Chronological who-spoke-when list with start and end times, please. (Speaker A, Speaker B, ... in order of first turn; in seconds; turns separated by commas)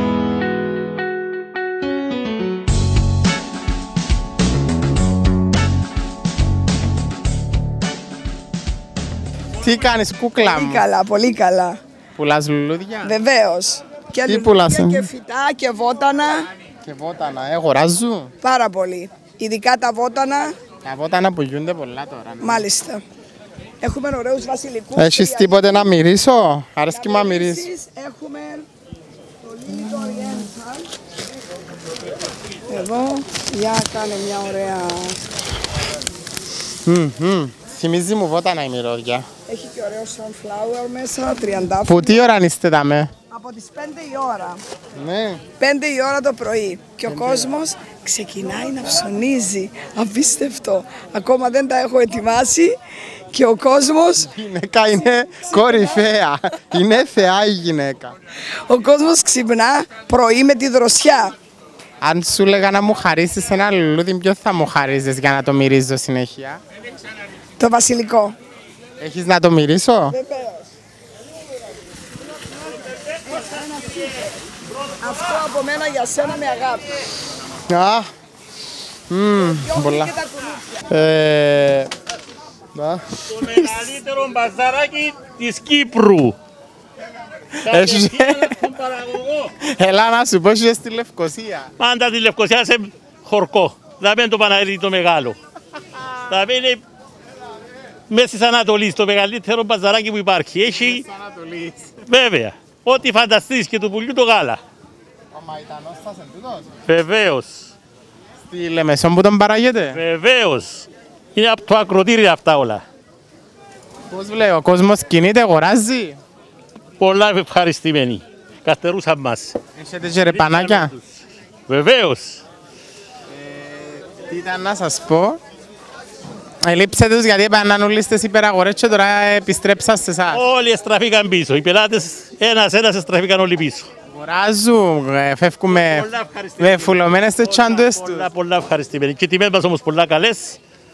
Speaker A: 9.6-10.8, Speaker B: 10.4-11.8, Speaker A: 12.2-13.2, Speaker B: 13.0-16.5, Speaker A: 14.2-15.1, Speaker A: 16.9-18.3, Speaker B: 18.4-20.6, Speaker A: 20.8-22.7, Speaker B: 22.4-23.0, Speaker B: 23.8-25.9, Speaker A: 24.9-27.7, Speaker B: 26.9-28.7, Speaker B: 29.5-30.8, Speaker B: 32.7-35.2, Speaker A: 36.9-39.3, Speaker B: 39.5-42.2, Speaker A: 41.9-43.1, Speaker B: 43.3-44.6, Speaker A: 45.0-45.4, Speaker B: 45.6-52.7, Speaker A: 47.1-47.5, Speaker B: 53.3-54.3, Speaker A: 54.2-58.1, Speaker B: 55.5-55.9, Speaker B: 58.7-61.3, Speaker A: 62.0-66.6, Speaker B: 67.6-68.3, Speaker A: 69.0-70.2, Speaker B: 75.0-76.8, Speaker A: 77.7-78.1, Speaker A: 79.1-80.1, Speaker B: 79.6-80.2, Speaker A: 80.9-81.9, Speaker A: 82.8-83.9, Speaker C: 83.3-86.4, Speaker A: 87.7-88.5, Speaker C: 87.7-89.5, Speaker A: 89.6-91.7, Speaker C: 91.8-95.4, Speaker C: 96.3-96.8, Speaker C: 98.1-101.0, Speaker A: 100.7-101.9, Speaker C: 102.1-104.6, Speaker A: 105.3-106.7, Speaker C: 106.9-107.7, Speaker A: 108.5-110.0, Speaker C: 109.9-112.8, Speaker A: 114.1-116.2, Speaker C: 117.0-119.6, Speaker A: 119.8-120.9, Speaker C: 120.3-121.0, Speaker C: 121.7-122.4, Speaker A: 123.3-125.4, Speaker A: 126.7-130.4, Speaker C: 130.3-133.9, Speaker A: 134.1-136.1, Speaker C: 135.7-140.6, Speaker A: 136.6-138.3